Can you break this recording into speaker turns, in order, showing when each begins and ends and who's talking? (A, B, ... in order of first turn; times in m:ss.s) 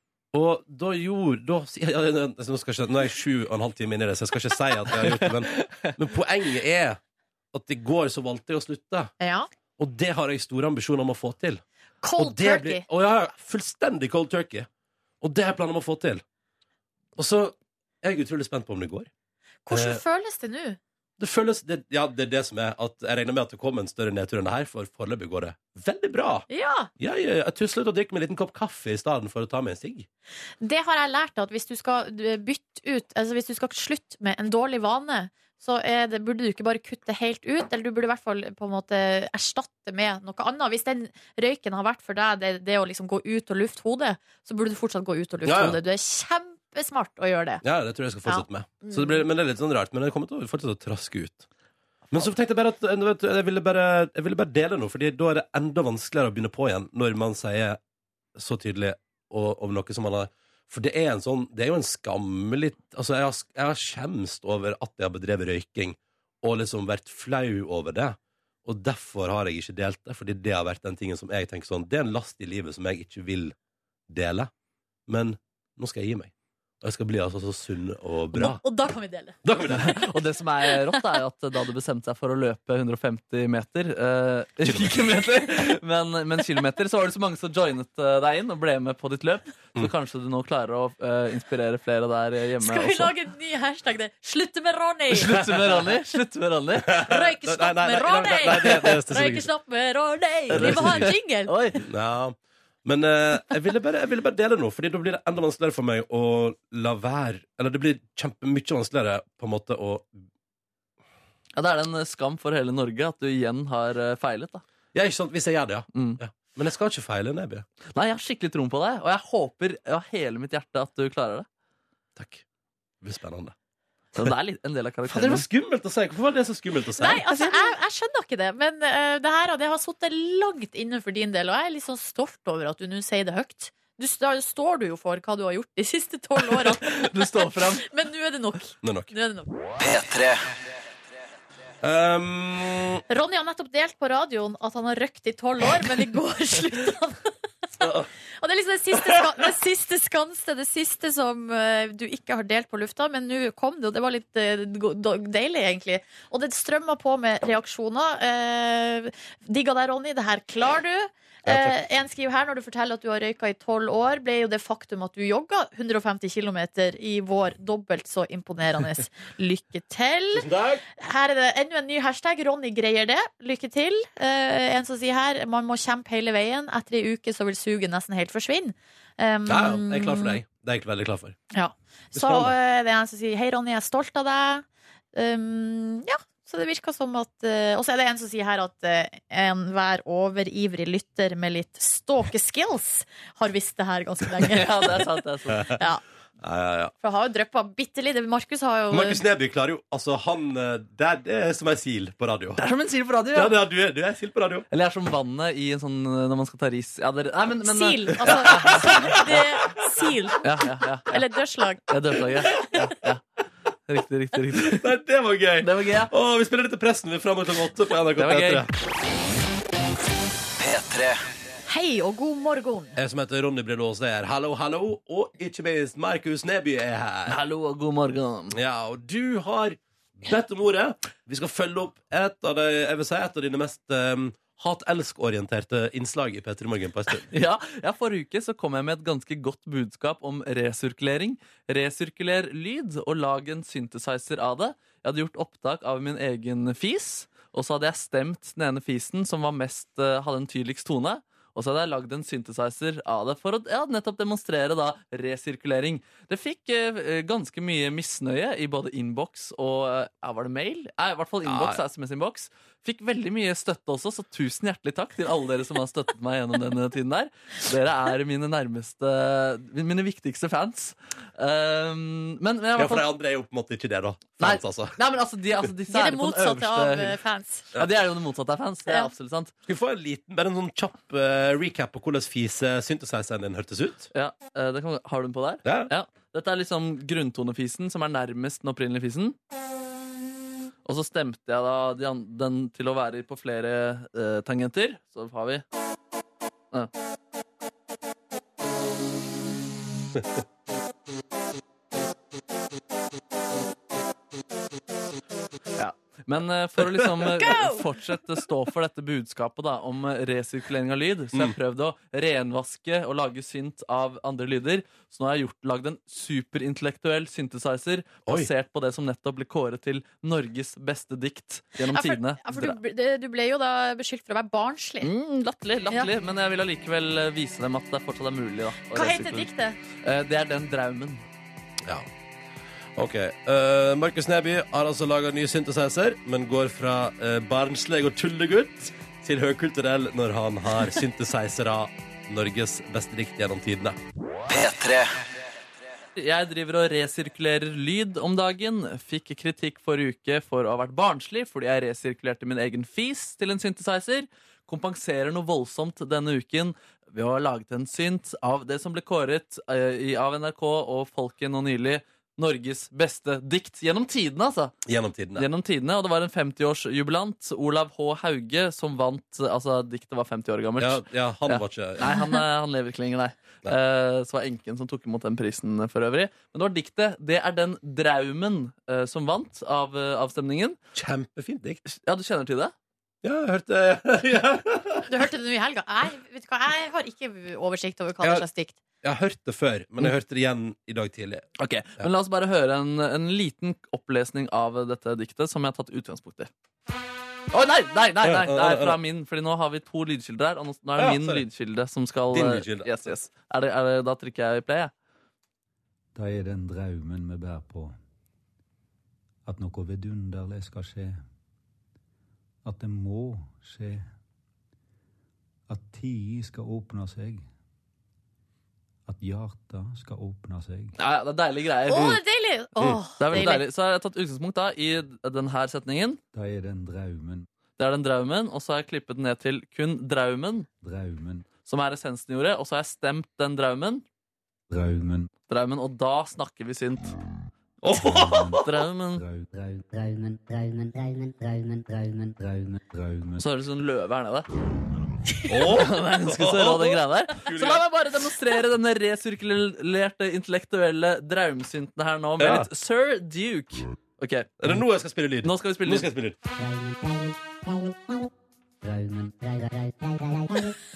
0:00.3-0:07.0 A
0:05.1-0:05.9 B
0:07.5-0:09.1 A
0:09.2-0:09.5 C
0:09.8-0:11.6 A
0:12.0-0:12.8 C
0:12.2-0:14.7 A
0:15.2-0:16.2 A
0:17.2-0:19.1 A
0:19.6-0:20.8 C
0:19.7-0:20.0 A
0:21.2-0:26.5 A
0:26.5-0:26.9 C
0:27.0-0:30.1 A
0:30.6-0:47.6 C
0:45.4-0:45.8 A
0:47.6-0:51.4 A
0:48.2-0:49.1 C
0:52.1-0:57.8 A
0:58.3-1:13.5 A
1:14.1-1:14.5 A
1:15.1-1:18.6 A
1:18.3-1:19.4 C
1:19.4-1:20.0 A
1:19.7-1:33.1 B
1:20.7-1:21.1 C
1:24.6-1:25.0 A
1:32.6-1:35.5 C
1:35.1-1:37.0 B
1:35.4-1:35.8 A
1:36.8-1:39.5 A
1:37.0-1:41.5 C
1:40.5-1:41.1 A
1:40.5-1:41.8 B
1:41.8-1:50.2 A
1:51.6-1:54.6 B
1:54.9-1:57.6 A
1:55.9-1:56.2 B
1:57.9-2:01.5 B
2:02.2-2:02.4 A
2:03.0-2:03.5 A
2:04.1-2:05.4 B
2:05.1-2:07.2 A
2:07.0-2:19.5 C
2:07.3-2:07.7 B
2:16.5-2:17.9 B
2:18.8-2:19.1 A
2:19.8-2:20.4 D
2:21.8-2:23.0 A
2:23.1-2:27.3 C
2:27.8-2:28.1 A
2:28.4-3:00.4 C
2:41.4-2:41.8 A
2:50.3-2:50.8 A
2:59.4-3:01.4 A
3:01.5-3:15.0 C
3:02.1-3:02.5 A
3:14.4-3:15.7 B
3:15.7-3:16.0 C
3:16.4-3:16.9 A
3:17.0-3:19.2 C
3:18.9-3:22.6 A
3:22.6-3:23.6 B
3:23.3-3:24.7 A
3:24.7-3:29.4 B
3:27.6-3:30.4 C
3:28.3-3:29.2 A
3:30.4-3:31.2 B
3:31.1-3:31.8 C
3:31.9-3:33.2 B
3:33.9-3:34.9 B
3:34.6-3:38.7 A
3:35.6-3:36.1 B
3:38.2-3:38.7 B
3:40.6-3:41.2 D
3:41.7-3:43.0 C
3:43.0-3:47.4 A
3:47.3-3:48.6 B
3:48.5-3:57.2 A
3:57.3-4:33.1 B
4:21.4-4:21.8 A
4:32.8-4:35.0 A
4:34.4-4:37.2 B
4:35.9-4:37.6 C
4:37.7-4:39.5 B
4:39.7-4:44.1 A
4:44.1-4:49.4 B
4:45.6-4:45.9 A
4:50.8-4:55.6 B
5:05.8-5:22.8 B
5:07.4-5:07.8 C
5:21.8-5:25.1 C
5:25.0-5:29.5 B
5:28.9-5:29.8 C
5:30.0-5:31.2 B
5:33.0-5:44.0 A
5:44.5-5:45.1 D
5:46.2-6:04.8 B
6:04.8-6:05.5 A
6:05.4-6:20.8 B
6:10.8-6:12.1 A
6:20.9-6:21.8 A
6:21.9-6:22.7 B
6:23.2-6:25.1 A
6:25.1-6:28.8 C
6:29.0-6:31.5 A
6:31.6-6:36.5 B
6:37.5-6:44.9 B
6:38.2-6:39.0 A
6:41.0-6:41.4 A
6:42.3-6:42.9 A
6:46.1-6:47.9 E
6:49.4-6:51.2 E
6:52.6-6:54.1 E
6:55.7-6:57.4 E
6:59.0-7:00.9 E
7:01.0-7:02.2 B
7:01.9-7:03.6 C
7:03.2-7:06.2 B
7:06.3-7:07.4 E
7:07.8-7:10.7 B
7:10.8-7:11.5 E
7:11.6-7:14.0 B
7:14.7-7:15.3 E
7:15.5-7:17.1 B
7:17.8-7:18.6 A
7:17.9-7:19.8 E
7:18.6-7:19.2 B
7:19.8-7:22.4 D
7:22.4-7:23.5 E
7:23.4-7:24.5 B
7:25.5-7:27.9 A
7:25.6-7:34.7 B
7:32.4-7:32.7 A
7:34.6-7:36.4 A
7:35.4-7:36.1 B
7:36.6-7:38.3 D
7:38.9-7:40.7 D